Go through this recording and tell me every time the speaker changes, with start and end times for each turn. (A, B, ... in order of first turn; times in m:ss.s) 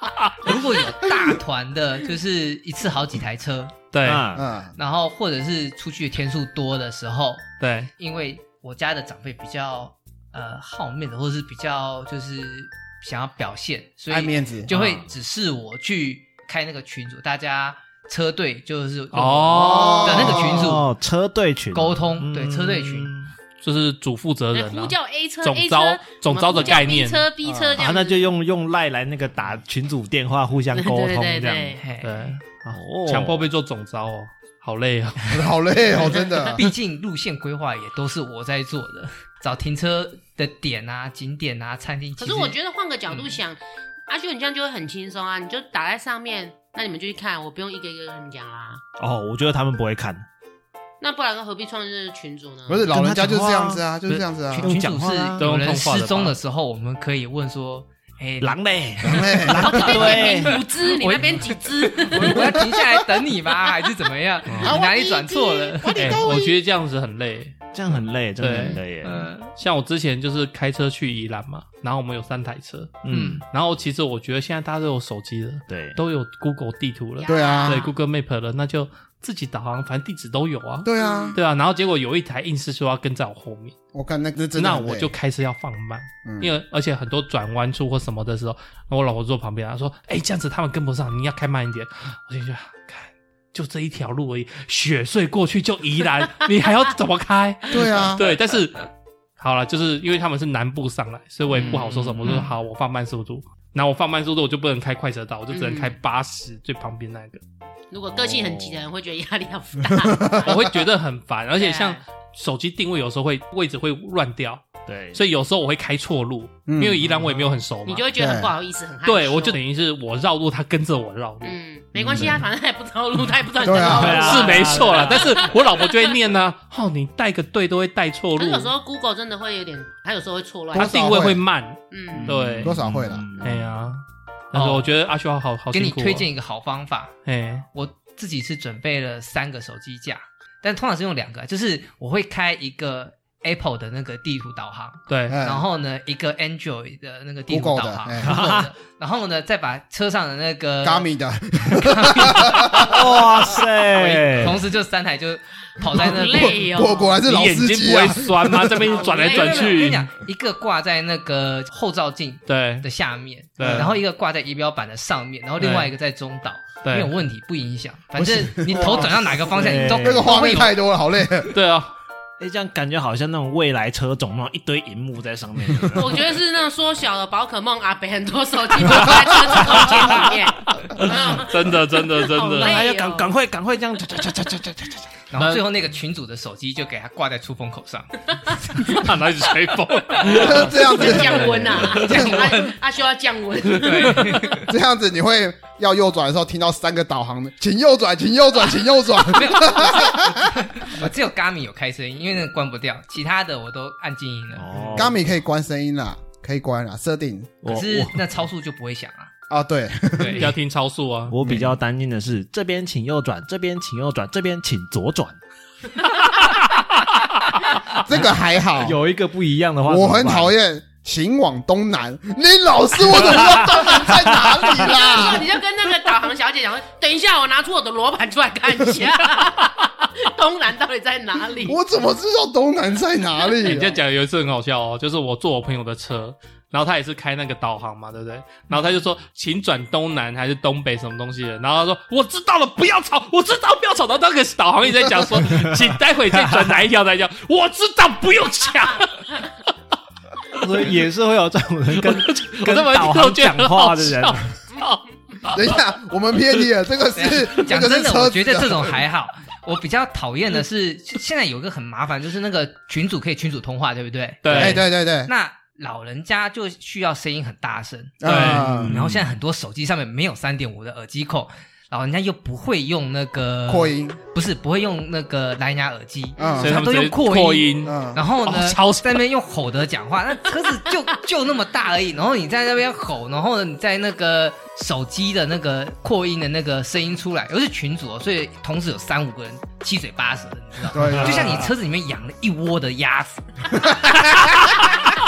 0:00.4-0:03.8 A
0:03.9-0:04.3 B
0:04.0-0:04.5 C
0:04.3-0:04.8 D
0:04.8-0:20.9 A
0:07.6-0:07.9 B
0:14.1-0:14.7 D
0:14.7-0:15.1 C
0:19.1-0:20.4 B
0:19.6-0:20.7 D
0:20.2-0:23.3 C
0:21.7-0:23.1 A
0:23.6-0:27.3 B
0:24.5-0:28.3 E
0:27.4-0:27.8 D
0:27.8-0:31.8 C
0:30.7-0:31.8 E
0:31.8-0:32.4 A
0:32.0-0:35.5 B
0:32.7-0:33.5 C
0:35.3-0:36.6 D
0:36.5-0:42.6 A
0:42.2-0:48.8 E
0:49.0-0:50.3 C
0:51.0-0:52.9 E
0:52.7-0:54.8 D
0:52.9-0:55.4 C
0:54.5-1:06.2 A
0:55.4-0:56.4 B
0:58.4-1:00.6 C
0:59.0-0:59.9 D
0:59.6-1:02.5 E
1:02.2-1:02.9 D
1:04.5-1:04.8 B
1:04.6-1:06.4 E
1:04.6-1:06.5 D
1:06.0-1:07.7 B
1:07.7-1:09.3 C
1:08.4-1:08.8 B
1:08.7-1:09.5 A
1:09.5-1:23.8 B
1:13.0-1:13.4 C
1:13.1-1:13.4 A
1:15.7-1:16.0 C
1:17.2-1:17.9 E
1:17.3-1:17.9 D
1:20.8-1:21.4 D
1:21.0-1:21.4 E
1:23.9-1:25.1 D
1:24.6-1:47.4 B
1:26.2-1:26.5 D
1:37.7-1:38.4 D
1:41.5-1:42.4 C
1:41.6-1:42.5 E
1:45.5-1:46.0 E
1:47.9-1:50.5 E
1:48.1-1:48.8 C
1:50.0-1:50.6 D
1:50.4-1:58.1 B
1:51.6-1:52.0 E
1:54.9-1:55.2 C
1:56.7-1:57.1 D
1:57.9-1:59.6 E
1:58.2-1:58.5 D
1:59.0-2:01.6 B
2:01.4-2:05.5 E
2:02.0-2:02.4 D
2:02.1-2:02.4 C
2:03.6-2:04.2 D
2:03.7-2:05.4 C
2:04.0-2:08.7 B
2:08.4-2:11.2 E
2:10.7-2:11.4 D
2:10.7-2:12.8 B
2:11.9-2:12.4 E
2:12.2-2:13.7 C
2:12.6-2:13.3 D
2:13.4-2:16.3 B
2:14.5-2:14.9 A
2:15.7-2:17.1 A
2:17.3-2:17.7 B
2:17.7-2:31.1 A
2:25.1-2:25.4 B
2:25.3-2:25.7 D
2:27.5-2:28.6 D
2:28.2-2:28.7 C
2:30.8-2:33.1 D
2:31.8-2:32.9 A
2:32.8-2:34.6 C
2:33.8-2:36.7 A
2:35.9-2:37.2 E
2:36.2-2:38.8 D
2:37.2-2:40.1 B
2:38.9-2:39.9 E
2:39.0-2:50.8 A
2:42.5-2:42.9 B
2:43.6-2:43.9 B
2:43.6-2:43.9 D
2:45.6-2:45.9 B
2:46.8-2:47.1 B
2:48.2-2:51.6 D
2:49.6-2:50.5 C
2:51.5-2:51.9 B
2:52.4-2:56.4 C
2:55.9-3:03.4 E
3:00.7-3:02.8 B
3:02.6-3:05.2 C
3:05.3-3:09.1 A
3:05.4-3:05.6 B
3:08.8-3:12.4 B
3:10.2-3:12.4 D
3:10.3-3:14.6 E
3:10.5-3:11.4 A
3:11.9-3:12.7 A
3:13.7-3:14.7 A
3:13.9-3:14.2 B
3:14.6-3:20.7 D
3:19.2-3:25.1 A
3:24.6-3:25.2 C
3:24.9-3:27.6 D
3:27.6-3:28.2 C
3:27.7-3:29.3 A
3:29.5-3:30.5 D
3:30.2-3:30.5 A
3:30.2-3:31.4 B
3:31.3-3:35.4 C
3:38.0-3:39.0 D
3:38.8-3:40.5 C
3:39.9-3:45.5 D
3:43.3-3:44.3 C
3:43.7-3:51.8 E
3:51.6-3:54.0 D
3:53.6-4:09.5 B
4:06.3-4:06.7 C
4:10.6-4:14.6 C
4:11.9-4:15.7 B
4:15.5-4:19.0 D
4:17.2-4:53.9 A
4:24.4-4:24.8 B
4:24.5-4:25.3 D
4:28.2-4:28.9 D
4:28.2-4:28.8 B
4:28.3-4:29.3 C
4:33.7-4:34.2 D
4:36.4-4:36.7 E
4:36.4-4:36.8 D
4:36.6-4:39.2 B
4:37.8-4:38.2 D
4:50.9-4:51.7 D
4:51.2-4:51.5 C